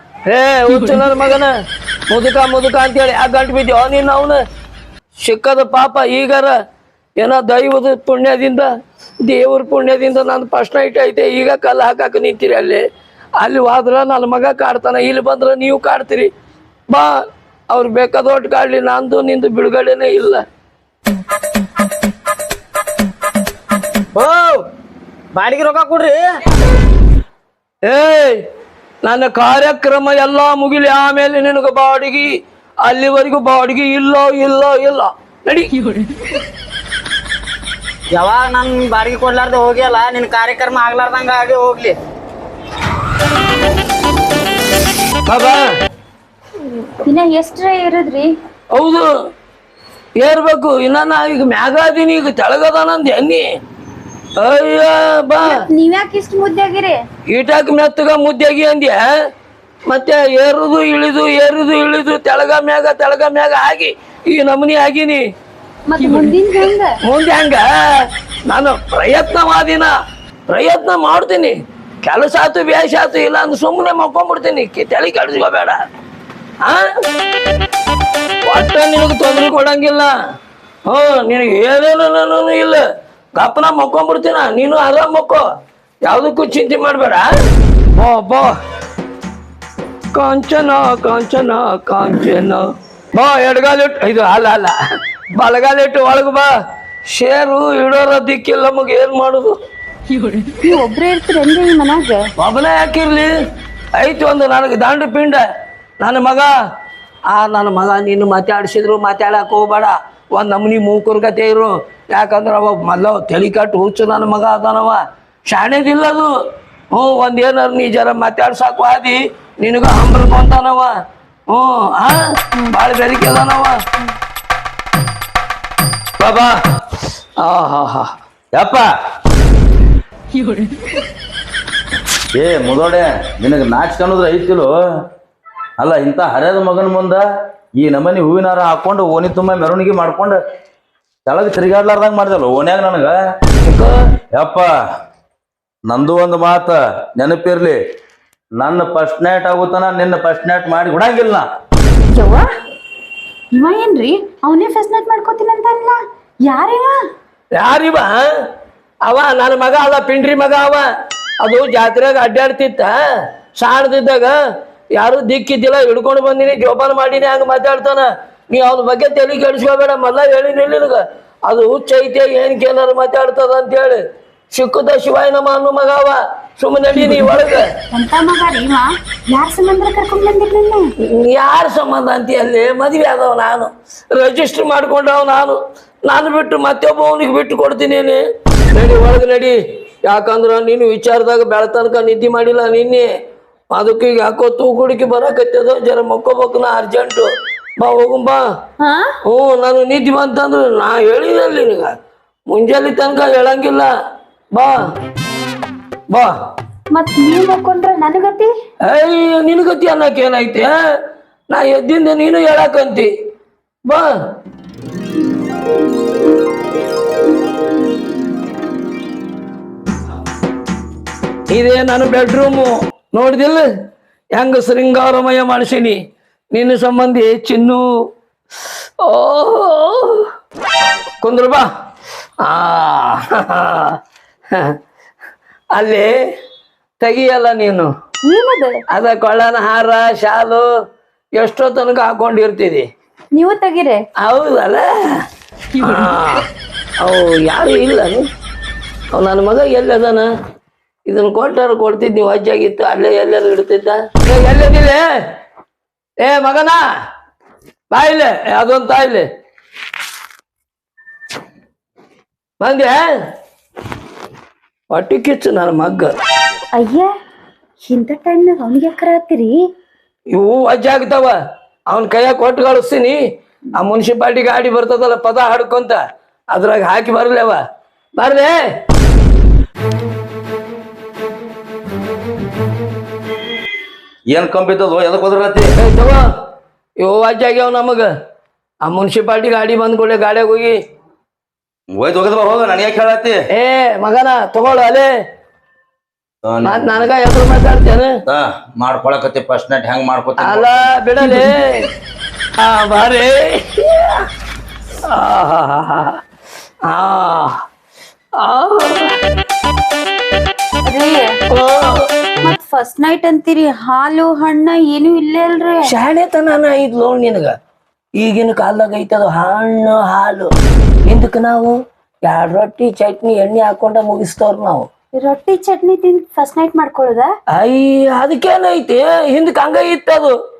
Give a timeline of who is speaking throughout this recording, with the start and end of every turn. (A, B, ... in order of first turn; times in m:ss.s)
0:00.3-0:01.5 A
0:02.1-0:04.4 A
0:05.2-0:06.6 A
0:07.2-0:08.7 A
0:09.2-0:12.8 A
0:13.4-0:16.3 A
0:16.9-0:20.4 A
0:24.1-0:24.6 B
0:25.3-0:26.3 B
0:27.8-0:28.4 A
0:29.0-0:35.9 A
0:38.1-0:42.0 B
0:45.2-0:45.6 A
0:47.0-0:48.3 C
0:48.7-0:49.1 A
0:50.2-0:53.5 A
0:54.4-0:55.6 A
0:55.4-0:57.0 C
0:57.3-0:59.1 A
0:59.9-1:05.3 A
1:05.9-1:07.0 C
1:07.0-1:09.9 A
1:10.5-1:15.8 A
1:16.6-1:16.9 A
1:18.4-1:20.1 A
1:20.8-1:22.8 A
1:23.4-1:25.4 A
1:26.0-1:27.3 A
1:27.9-1:28.5 A
1:30.1-1:34.7 A
1:35.3-1:36.5 A
1:37.0-1:39.5 A
1:40.6-1:42.3 C
1:42.4-1:43.3 A
1:44.0-1:45.4 A
1:46.0-1:46.5 A
1:47.3-1:56.3 A
1:56.9-2:00.9 A
2:01.5-2:03.8 A
2:06.2-2:06.6 A
2:07.4-2:08.1 A
2:08.5-2:08.8 D
2:12.4-2:14.7 D
2:15.8-2:17.2 D
2:17.8-2:20.4 D
2:21.2-2:23.2 D
2:23.6-2:24.0 A
2:24.3-2:24.7 D
2:25.9-2:27.8 D
2:28.6-2:31.5 D
2:32.1-2:32.5 C
2:33.5-2:37.0 C
2:37.5-2:38.2 A
2:39.0-2:40.8 A
2:41.4-2:43.0 A
2:43.6-2:44.4 A
2:44.9-2:57.6 A
2:56.9-2:57.3 C
2:57.9-3:00.9 C
3:01.1-3:08.2 A
3:08.7-3:13.1 A
3:13.7-3:18.4 A
3:18.8-3:19.1 C
3:19.2-3:21.9 A
3:22.5-3:23.9 A
3:24.5-3:24.9 A
3:26.9-3:28.5 C
3:28.8-3:30.8 A
3:31.5-3:33.1 A
3:41.5-3:43.6 A
3:44.3-3:46.0 A
3:46.5-3:47.8 A
3:49.0-3:50.3 A
3:51.2-3:51.6 A
3:52.4-3:54.0 A
3:54.5-3:54.8 A
3:55.7-3:56.1 A
3:57.0-3:57.9 A
3:58.2-3:58.8 C
3:58.9-4:00.7 A
4:01.4-4:02.9 A
4:03.3-4:04.0 C
4:04.2-4:05.2 A
4:05.7-4:06.5 A
4:07.0-4:08.2 A
4:09.1-4:10.3 A
4:11.1-4:15.3 A
4:16.2-4:16.8 A
4:17.9-4:19.3 A
4:22.6-4:23.1 A
4:24.9-4:26.1 A
4:26.7-4:27.1 C
4:27.8-4:29.6 C
4:30.3-4:31.4 A
4:31.9-4:33.2 A
4:33.8-4:37.6 A
4:38.2-4:38.6 A
4:44.3-4:45.7 D
4:45.8-4:46.2 A
4:47.0-4:48.1 A
4:48.8-4:50.8 A
4:52.0-4:53.4 D
4:53.5-4:55.1 A
4:56.4-4:57.1 D
4:56.6-4:58.1 A
4:58.2-5:00.7 D
5:00.4-5:01.9 A
5:02.6-5:04.3 A
5:05.0-5:06.2 A
5:06.8-5:07.6 A
5:08.4-5:09.1 A
5:10.9-5:11.3 C
5:11.5-5:12.1 A
5:12.4-5:15.9 C
5:15.8-5:17.5 A
5:18.2-5:20.5 A
5:21.0-5:24.9 A
5:25.2-5:27.3 C
5:27.5-5:30.3 A